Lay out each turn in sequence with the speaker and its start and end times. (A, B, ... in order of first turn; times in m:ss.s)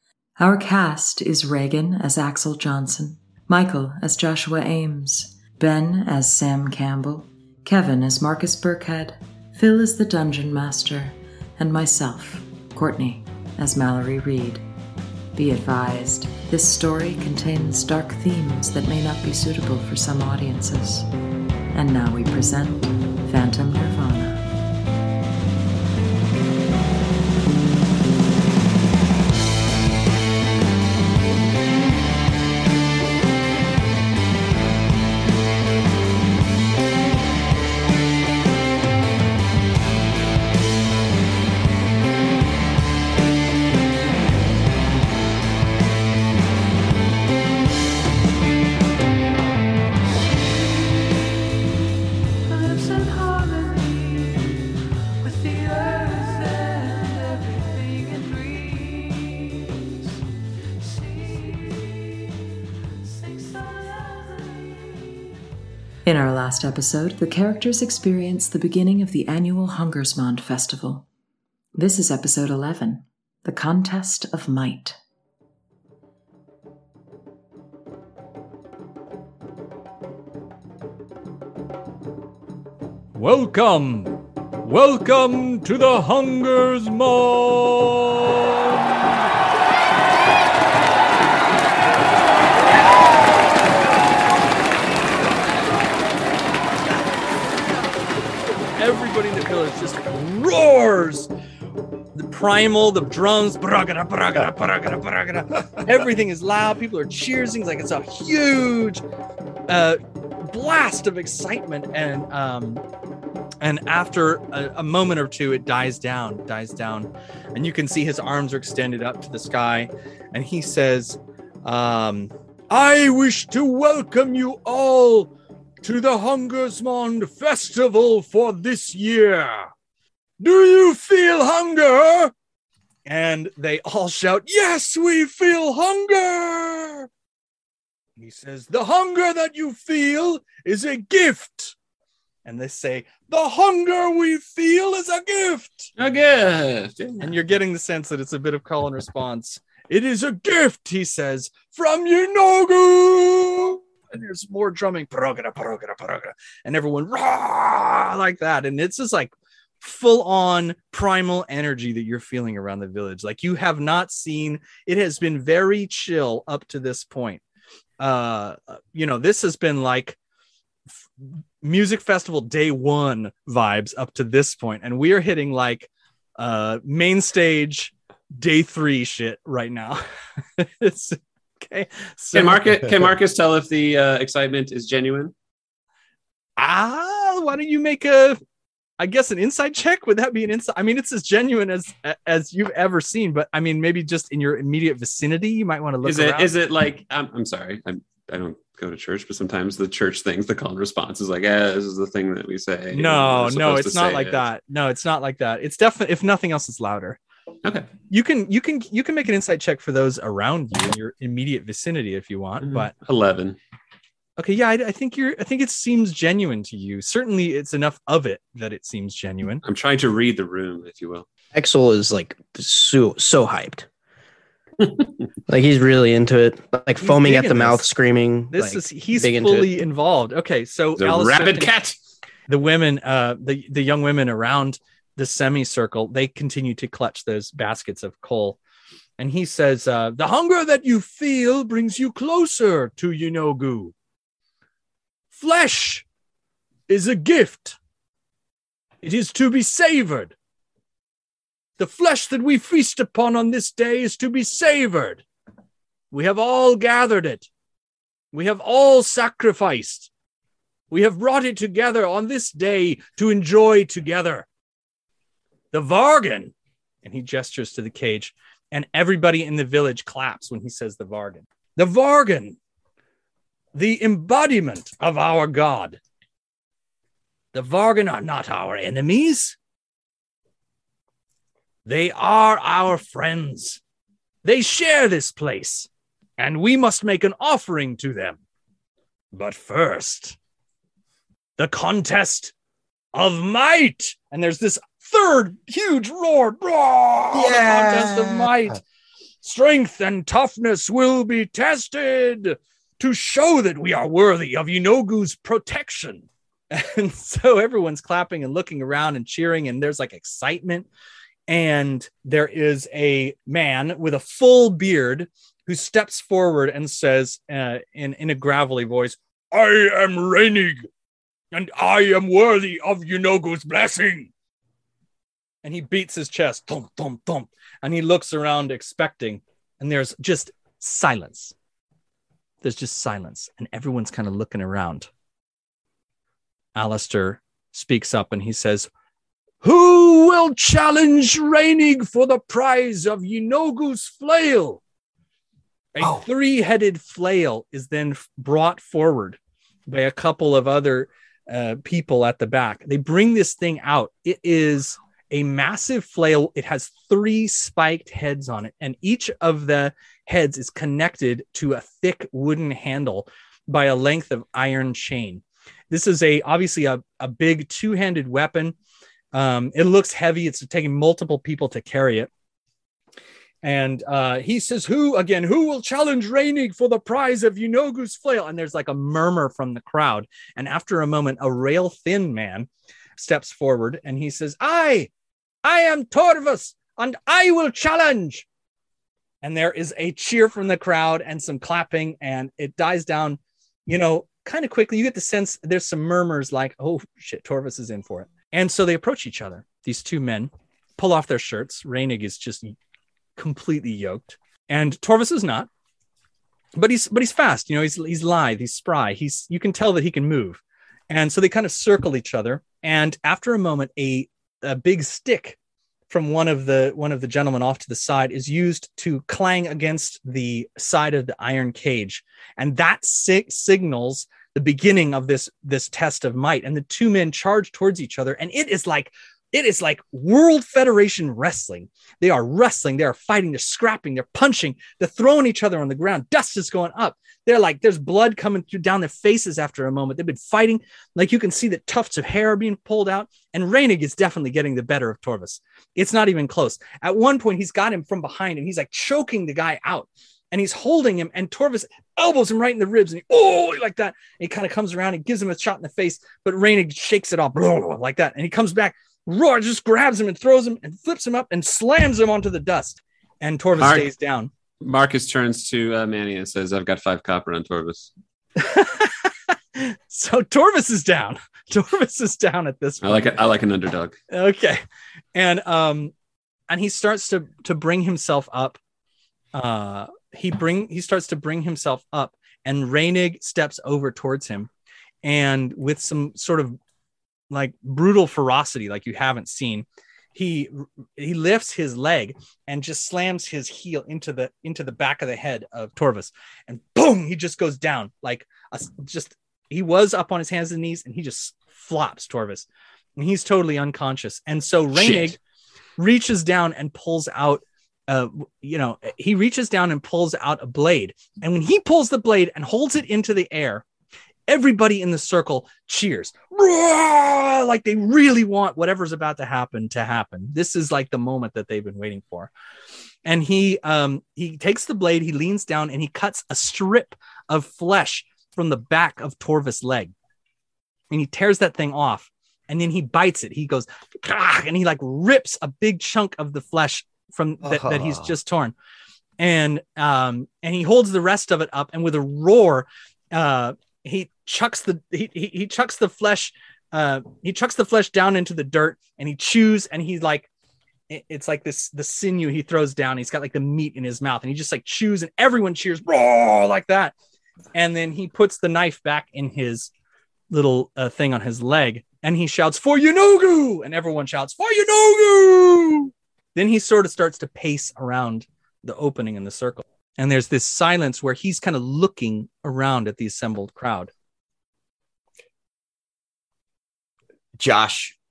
0:00.4-0:14.6 A
0:15.4-0:21.1 A
0:21.7-0:24.4 A
0:52.5-0:54.4 B
0:55.2-0:59.2 B
1:01.0-1:01.8 B
1:03.4-1:04.7 B
1:06.0-1:11.1 A
1:11.8-1:15.0 A
1:23.2-1:29.3 B
1:38.8-1:41.3 B
1:42.2-1:49.0 B
1:49.7-1:52.8 B
1:53.6-2:05.3 B
2:05.8-2:09.7 B
2:10.4-2:12.3 B
2:13.1-2:17.1 B
2:18.2-2:21.8 B
2:22.4-2:25.9 B
2:26.0-2:27.4 C
2:27.2-2:47.4 B
2:48.0-2:50.2 B
2:51.6-3:00.0 B
3:00.6-3:02.8 B
3:02.3-3:05.3 C
3:06.6-3:08.4 B
3:09.0-3:16.5 B
3:16.0-3:24.5 C
3:22.9-3:27.2 B
3:27.6-3:27.9 C
3:28.1-3:32.9 B
3:32.6-3:33.6 C
3:34.4-3:39.6 B
3:39.6-3:41.3 C
3:41.5-3:43.9 D
3:45.5-3:49.8 D
3:47.0-3:47.8 B
3:48.5-3:51.7 B
3:51.0-3:51.9 C
3:52.5-3:58.6 B
3:59.2-4:03.9 B
4:05.3-4:06.0 B
4:06.9-4:07.8 B
4:09.0-4:10.3 B
4:11.8-4:15.2 B
4:16.1-4:17.5 B
4:18.3-4:20.1 B
4:20.9-4:24.5 B
4:25.7-4:26.5 B
4:27.0-4:32.6 B
4:33.7-4:36.0 B
4:37.5-4:39.6 B
4:41.9-4:43.8 B
4:44.4-4:48.4 B
4:49.3-4:50.4 B
4:51.6-4:52.5 B
4:53.1-4:58.8 B
4:57.3-4:58.5 E
4:59.4-5:10.9 B
5:11.5-5:20.9 B
5:21.5-5:24.3 B
5:25.6-5:31.5 B
5:32.6-5:35.1 B
5:36.8-5:38.9 B
5:39.6-5:44.8 B
5:46.0-6:08.7 B
5:46.0-5:46.2 E
6:09.3-6:12.3 B
6:13.6-6:25.1 B
6:25.6-6:28.5 B
6:29.4-6:42.8 B
6:43.4-6:45.7 B
6:46.8-6:55.6 B
6:56.1-7:44.5 B
7:43.8-7:44.1 C
7:44.8-7:48.1 C
7:48.6-7:53.4 B
7:53.0-7:54.2 C
7:54.3-7:54.8 B
7:55.4-7:56.1 B
7:56.7-7:58.8 B
7:59.5-8:04.7 B
8:05.2-8:06.8 B
8:07.5-8:22.7 B
8:23.2-8:25.4 B
8:25.0-8:25.3 E
8:26.0-8:33.8 B
8:34.5-8:42.5 B
8:43.3-8:50.1 B
8:51.1-8:58.7 B
8:57.6-8:58.3 E
8:59.4-9:10.5 B
9:11.1-9:17.1 B
9:17.8-9:19.9 B
9:20.5-9:34.1 B
9:37.6-9:38.2 E